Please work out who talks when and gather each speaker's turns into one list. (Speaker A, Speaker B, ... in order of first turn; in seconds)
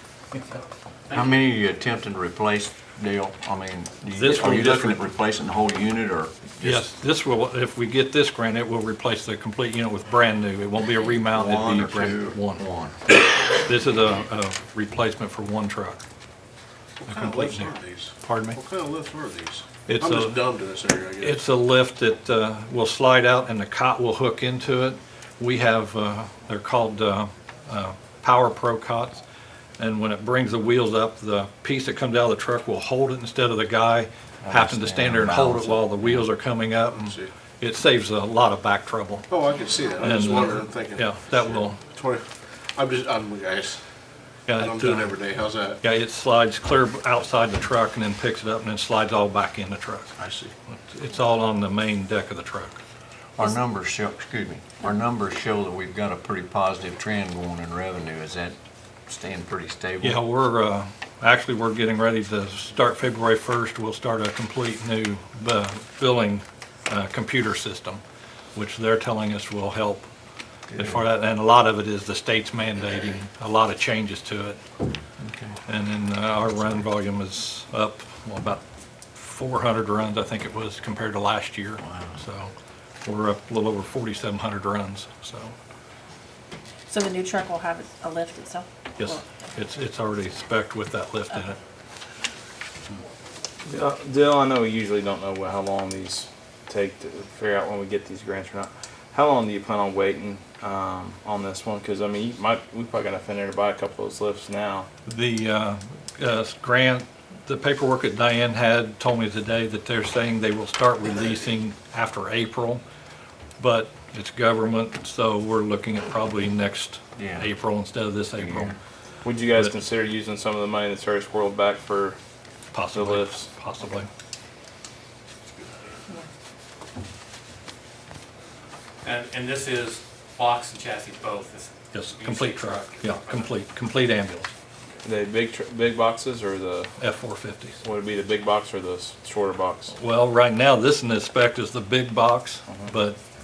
Speaker A: 0.3-1.4, 129.0-133.6
Speaker B: 1.1-6.9, 11.3-13.0, 34.4-36.3, 53.4-60.2, 70.7-71.0, 75.2-75.6, 81.8-82.2, 117.2-117.5, 118.4-118.8
Speaker C: 4.1-5.0, 6.6-16.0, 17.1-18.6, 19.9-20.4, 21.2-29.2, 29.8-39.3, 40.0-41.8, 44.5-45.2, 45.8-50.1, 50.7-52.8, 60.0-68.0, 68.5-70.1, 70.7-74.6, 75.7-78.6, 79.1-82.5, 83.0-85.5, 89.0-91.5, 105.0-112.8, 113.6-118.8, 119.5-119.8, 122.7-124.1, 131.9-134.5, 137.0-137.8, 139.9-143.2
Speaker D: 17.0-21.4, 39.3-42.2, 42.8-43.8, 44.5-45.8, 50.2-50.5
Speaker E: 86.9-89.2
Speaker F: 93.6-104.9, 119.2-122.2, 122.9-123.5, 135.0-136.9, 137.8-139.9, 142.7-142.9